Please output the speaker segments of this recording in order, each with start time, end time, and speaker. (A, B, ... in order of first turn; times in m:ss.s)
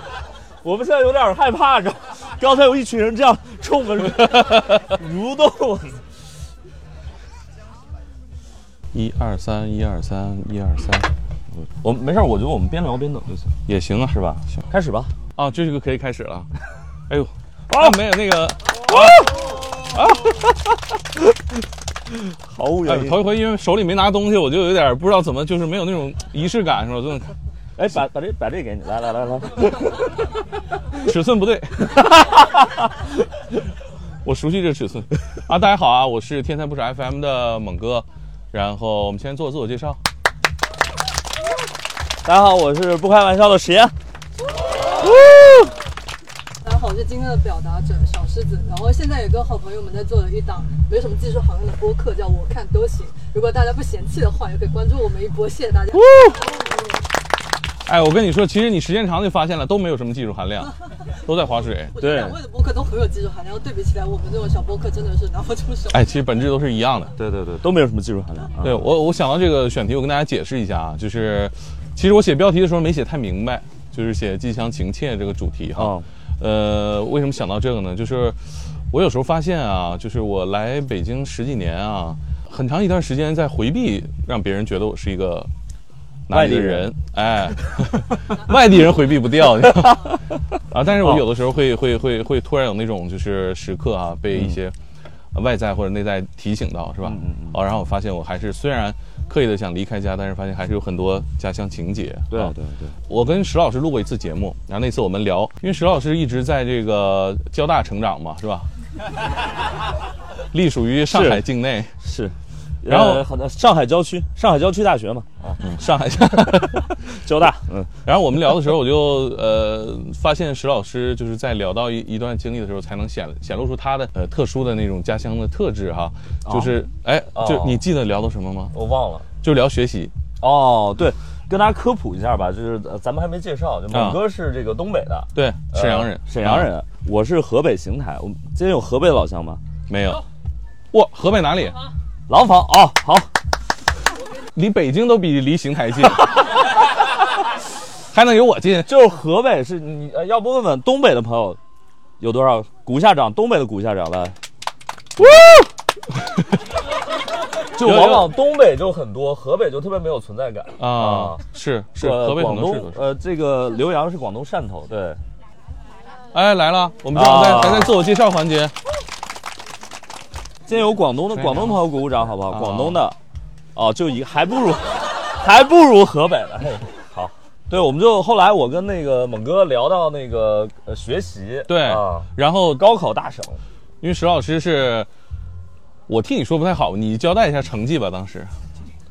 0:00.6-0:06.0 A
0:08.9-0:11.1 B
0:11.5-0:13.5 A
0:13.7-0:14.5 B
0:14.2-0:15.1 A
0:15.4-0:16.5 B
0:17.1-0:19.3 B
0:18.9-0:19.6 A
0:19.9-0:20.4 B
0:22.5-0:23.3 A
0:22.8-0:27.3 B
0:27.8-0:30.1 A
0:31.0-0:32.1 B
0:32.0-0:32.7 A
0:34.2-0:40.0 B
0:42.2-0:43.9 A
0:45.2-0:45.7 A
0:46.6-0:56.8 C
0:55.9-0:56.4 B
0:57.9-1:00.7 B
1:01.2-1:02.0 B
1:01.9-1:06.1 C
1:02.0-1:02.4 A
1:05.9-1:07.1 B
1:07.2-1:08.9 A
1:08.6-1:18.4 B
1:15.8-1:16.1 A
1:18.9-1:25.5 B
1:26.3-1:34.8 B
1:26.3-1:26.9 A
1:29.7-1:30.0 A
1:30.9-1:31.3 A
1:34.3-1:34.6 A
1:35.3-1:42.5 B
1:37.0-1:37.6 A
1:42.3-1:42.9 A
1:43.1-1:48.7 B
1:50.5-1:51.9 B
1:51.1-1:51.4 A
1:52.0-1:55.6 A
1:52.9-1:53.2 B
1:55.6-1:57.0 B
1:57.2-1:58.0 A
1:58.0-2:08.7 B
2:06.5-2:06.8 A
2:07.3-2:07.8 A
2:08.7-2:09.3 A
2:09.4-2:10.1 B
2:10.4-2:19.6 A
2:13.9-2:14.2 B
2:15.4-2:16.7 B
2:19.9-2:20.2 B
2:20.9-2:21.8 B
2:22.3-2:23.3 A
2:24.6-2:26.3 B
2:28.1-2:28.9 B
2:28.9-2:31.6 A
2:32.2-2:34.4 A
2:35.2-2:35.7 B
2:37.8-2:41.4 A
2:37.8-2:38.4 B
2:40.8-2:43.0 B
2:42.0-2:45.2 A
2:46.3-2:48.7 B
2:47.1-2:48.0 A
2:50.7-2:53.2 A
2:51.3-2:51.8 B
2:52.5-2:53.0 B
2:53.8-3:03.6 A
3:01.7-3:02.9 B
3:04.0-3:05.1 B
3:06.1-3:08.5 B